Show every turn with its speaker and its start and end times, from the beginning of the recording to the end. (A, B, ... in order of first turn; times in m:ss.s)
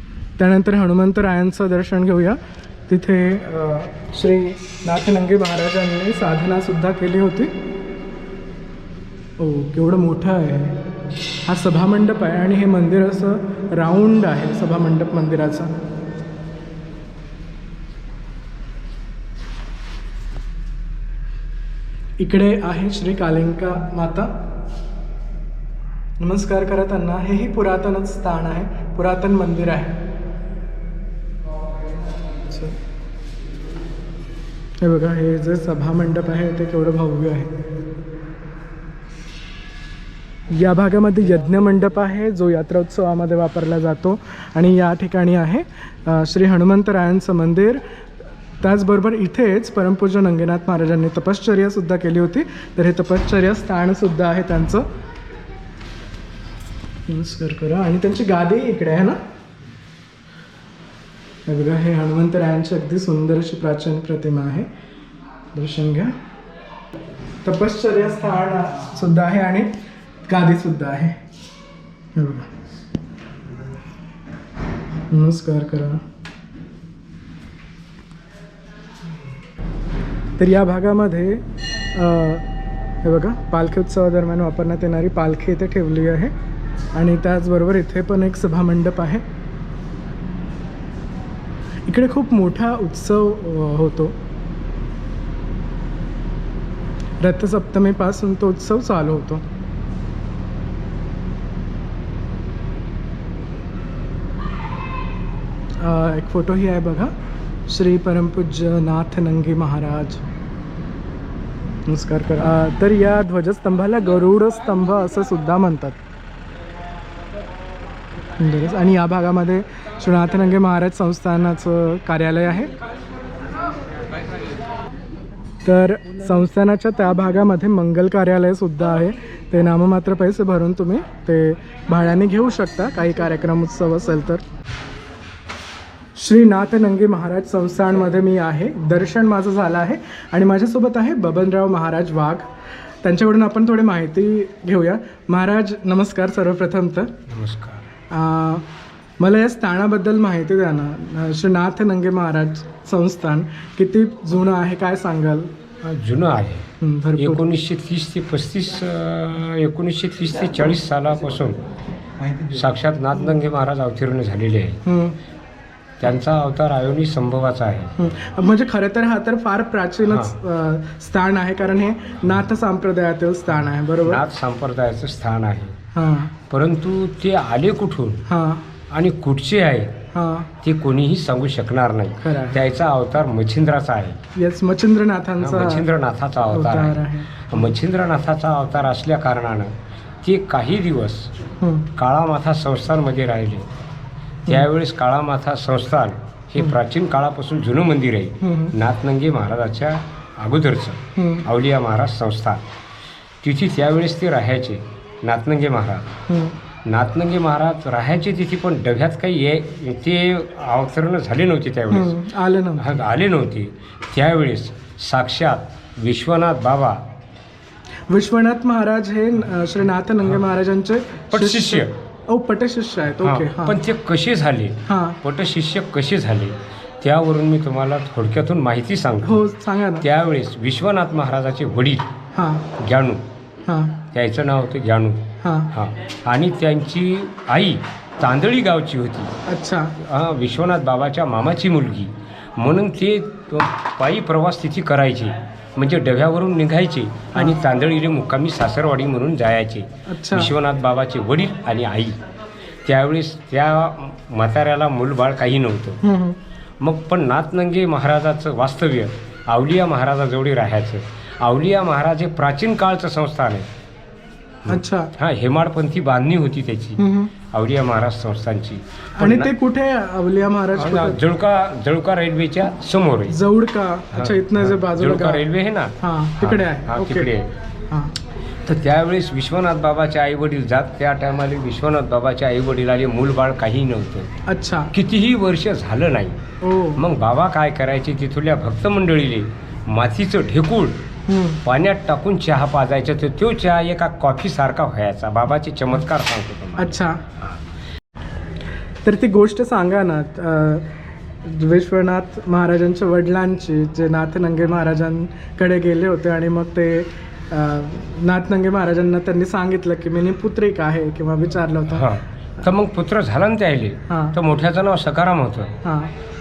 0:00.4-0:07.5 A
0:09.4-0:10.8 A
0:11.4-0:15.7 A
0:22.2-0:24.3 A
0:26.2-0:30.0 A
0:32.5-0:32.8 A
0:34.8-0:37.5 A
0:40.5-0:47.8 A
0:48.6-0:54.9 A
0:57.1-0:59.2 A
1:01.5-1:04.7 A
1:05.5-1:06.1 A
1:07.4-1:09.7 A
1:10.3-1:11.2 A
1:12.1-1:12.5 A
1:15.1-1:16.0 A
1:20.4-1:22.4 A
1:23.0-1:26.3 A
1:26.9-1:29.2 A
1:31.9-1:34.2 A
1:37.2-1:39.4 A
1:45.8-1:47.1 A
1:47.7-1:50.2 A
1:51.9-1:56.0 A
1:58.4-2:02.7 A
2:05.6-2:14.4 A
2:16.1-2:22.5 A
2:23.0-2:27.1 A
2:27.3-2:27.8 B
2:28.1-2:28.7 A
2:29.2-2:35.5 A
2:35.8-2:41.6 B
2:36.8-2:37.4 A
2:42.4-2:44.8 B
2:44.8-2:45.2 A
2:46.0-2:48.1 B
2:48.0-2:54.2 A
2:50.1-2:50.3 B
2:54.0-2:55.8 B
2:55.9-2:56.3 A
2:56.5-2:58.2 B
2:58.3-2:58.7 A
2:58.9-3:00.0 B
3:00.1-3:00.5 A
3:00.6-3:04.2 B
3:02.2-3:02.6 A
3:04.3-3:05.9 A
3:05.4-3:11.3 B
3:06.5-3:07.7 A
3:11.6-3:11.9 A
3:12.0-3:13.7 B
3:14.5-3:22.6 B
3:18.4-3:18.7 A
3:21.2-3:21.4 A
3:23.4-3:26.1 B
3:26.3-3:26.6 A
3:26.8-3:32.1 B
3:31.9-3:33.0 A
3:32.8-3:37.0 B
3:38.1-3:43.8 A
3:41.3-3:41.9 B
3:43.2-3:49.3 B
3:44.8-3:45.2 A
3:49.2-3:50.0 A
3:50.0-3:52.1 B
3:52.3-3:52.7 A
3:52.8-3:53.2 B
3:53.6-3:54.0 A
3:54.1-3:59.3 B
3:55.4-3:55.7 A
3:59.4-4:00.0 A
4:00.0-4:12.2 B
4:10.1-4:10.5 A
4:12.8-4:16.0 B
4:16.0-4:16.4 A
4:16.8-4:23.7 B
4:24.6-4:29.5 B
4:24.7-4:25.1 A
4:27.0-4:27.3 A
4:29.2-4:31.2 A
4:30.8-4:33.4 B
4:33.3-4:35.4 A
4:34.1-4:37.5 B
4:36.0-4:37.3 A
4:38.6-4:44.3 B
4:44.4-4:44.9 A
4:44.9-4:46.4 B
4:46.6-4:47.0 A
4:47.0-4:51.0 B
4:51.3-4:51.6 A
4:51.6-4:57.6 B
4:56.8-4:57.2 A
4:59.0-5:12.1 A
5:11.9-5:15.7 B
5:14.1-5:14.4 A
5:15.8-5:16.1 A